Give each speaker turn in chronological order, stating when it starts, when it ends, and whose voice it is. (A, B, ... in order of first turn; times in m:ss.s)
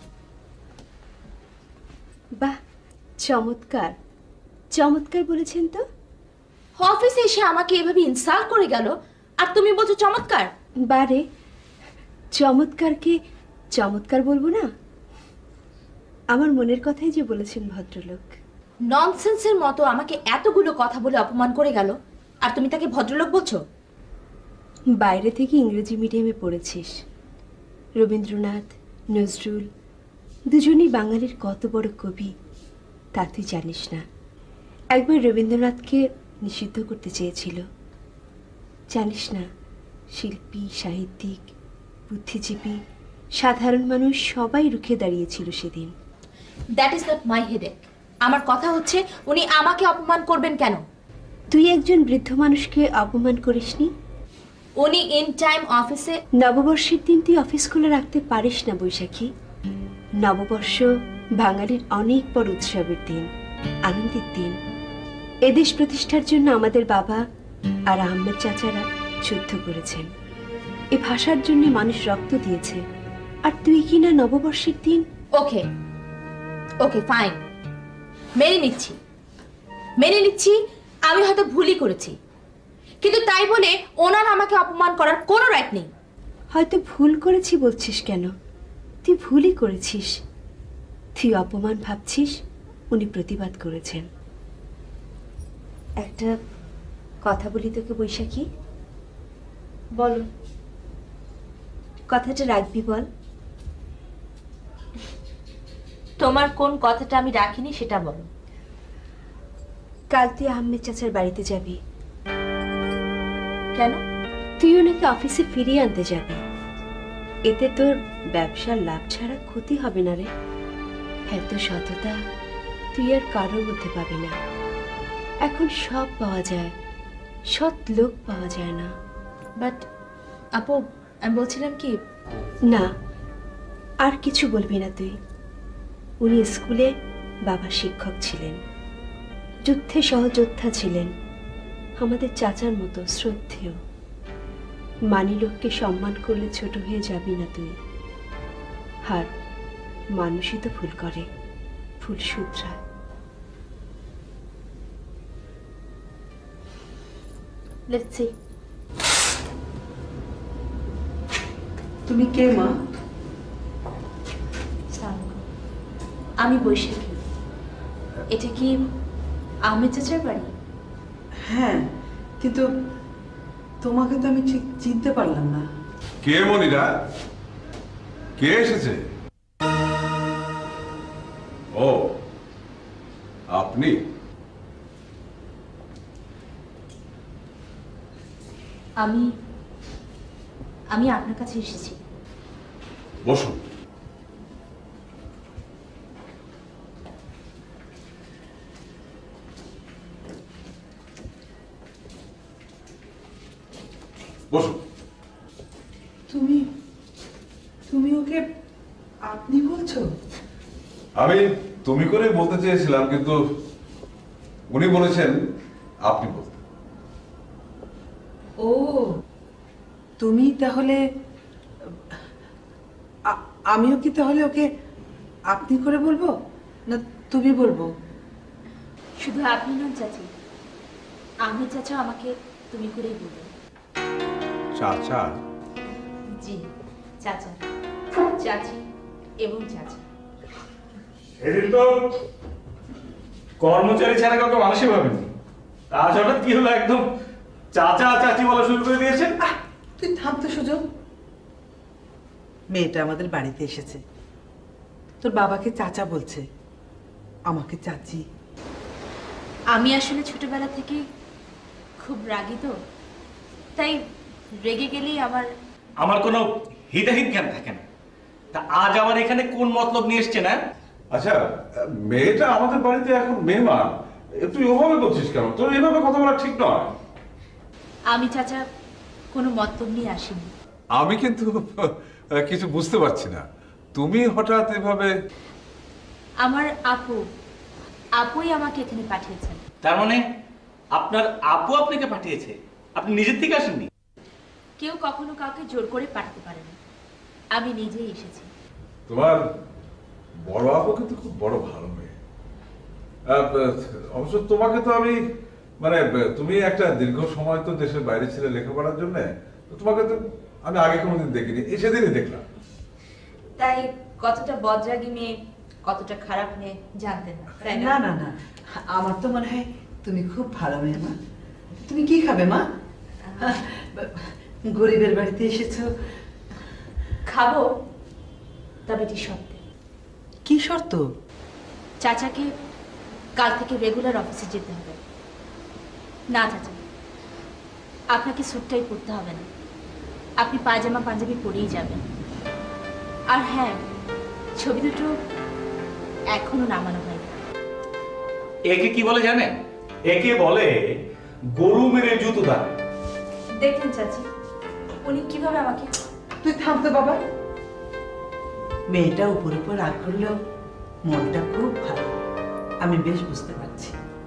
0:03.2-0:04.0 A
0:04.7-0:05.8 A
0:06.8-0:10.5 B
0:10.9-0:11.2 A
0:12.4-0:13.2 A
0:13.8-0:14.7 A
0:16.3-0:18.3 A
0:18.9-0:23.6 B
0:25.0-0:27.0 A
0:28.0-0:29.7 A
0:30.5-0:32.3 A
0:33.2-0:34.0 A
0:34.9-0:37.6 A
0:38.9-0:39.4 A
0:40.1-0:41.5 A
0:42.1-0:42.8 A
0:43.4-0:45.9 A
0:46.8-0:50.8 B
0:51.5-0:53.9 A
0:54.8-0:56.2 B
0:56.4-0:59.3 A
1:00.2-1:03.3 A
1:03.8-1:04.6 A
1:05.4-1:07.2 A
1:07.9-1:10.1 A
1:10.9-1:12.8 A
1:13.4-1:15.0 A
1:15.4-1:15.7 B
1:16.8-1:17.4 B
1:18.4-1:19.0 B
1:20.0-1:22.2 B
1:23.0-1:25.9 B
1:26.5-1:28.3 A
1:29.0-1:30.2 A
1:31.2-1:32.4 A
1:32.9-1:34.0 A
1:36.0-1:36.3 A
1:37.2-1:38.4 A
1:40.0-1:40.3 B
1:42.1-1:43.1 A
1:46.2-1:48.3 B
1:50.1-1:51.8 A
1:53.7-1:54.0 B
1:54.6-1:56.4 A
1:57.5-2:00.3 A
2:01.3-2:02.2 A
2:02.9-2:04.4 A
2:05.4-2:06.7 A
2:07.5-2:08.9 A
2:09.6-2:09.8 B
2:10.6-2:12.0 B
2:12.6-2:12.9 A
2:14.0-2:15.2 A
2:16.2-2:16.9 A
2:17.4-2:18.6 A
2:19.6-2:21.1 A
2:22.0-2:23.8 A
2:25.1-2:27.8 A
2:30.2-2:31.3 A
2:32.0-2:32.8 A
2:37.9-2:38.3 B
2:42.1-2:42.7 C
2:44.9-2:45.4 B
2:46.4-2:47.2 B
2:48.3-2:48.8 B
2:49.7-2:50.5 B
2:51.5-2:51.8 C
2:52.4-2:52.6 C
2:53.8-2:55.6 C
2:56.2-2:56.9 D
2:58.4-2:59.0 D
3:01.7-3:02.2 D
3:03.5-3:04.0 D
3:09.0-3:09.3 B
3:10.9-3:12.0 B
3:13.2-3:13.6 D
3:24.5-3:24.8 D
3:26.3-3:26.6 C
3:27.9-3:28.4 C
3:29.2-3:30.1 C
3:31.2-3:33.4 D
3:34.7-3:35.4 D
3:36.0-3:36.6 D
3:38.6-3:39.1 C
3:40.2-3:41.0 C
3:43.3-3:44.7 C
3:45.5-3:46.3 C
3:46.9-3:47.9 C
3:49.2-3:50.3 B
3:51.4-3:53.5 B
3:54.8-3:55.4 D
3:56.3-3:56.7 B
3:57.2-3:57.6 B
3:58.3-3:58.8 B
3:59.4-4:00.0 B
4:01.4-4:02.1 E
4:03.6-4:05.3 E
4:05.9-4:07.0 E
4:07.7-4:09.4 E
4:09.4-4:10.8 C
4:12.7-4:14.0 C
4:15.2-4:16.4 C
4:17.5-4:18.2 C
4:19.7-4:21.0 B
4:22.0-4:22.7 B
4:23.8-4:24.0 B
4:24.6-4:25.5 B
4:26.0-4:27.8 E
4:28.5-4:30.6 E
4:31.1-4:36.9 D
4:38.1-4:38.6 B
4:39.3-4:40.5 B
4:41.0-4:45.1 D
4:46.4-4:47.2 B
4:48.2-4:49.6 B
4:49.8-4:50.2 E
4:50.9-4:53.9 E
4:54.8-4:56.8 B
4:57.5-4:58.5 B
4:59.1-4:59.4 D
5:00.4-5:02.2 D
5:03.3-5:05.2 D
5:05.8-5:12.4 D
5:13.6-5:15.3 B
5:15.8-5:18.0 B
5:17.6-5:21.2 C
5:21.8-5:22.6 C
5:23.2-5:23.6 B
5:23.4-5:25.9 C
5:27.2-5:27.7 B
5:28.9-5:29.6 B
5:30.4-5:31.0 C
5:32.0-5:32.5 B
5:33.4-5:35.0 B
5:36.3-5:36.8 B
5:38.1-5:39.5 B
5:40.4-5:42.0 B
5:43.3-5:43.8 B
5:44.6-5:45.2 B
5:46.3-5:47.3 B
5:48.7-5:49.6 E
5:50.1-5:50.8 E
5:51.6-5:52.8 E
5:53.6-5:54.3 B
5:55.0-5:55.9 B
5:56.4-5:57.2 C
5:58.9-6:00.4 C
6:01.1-6:02.1 C
6:02.8-6:04.0 C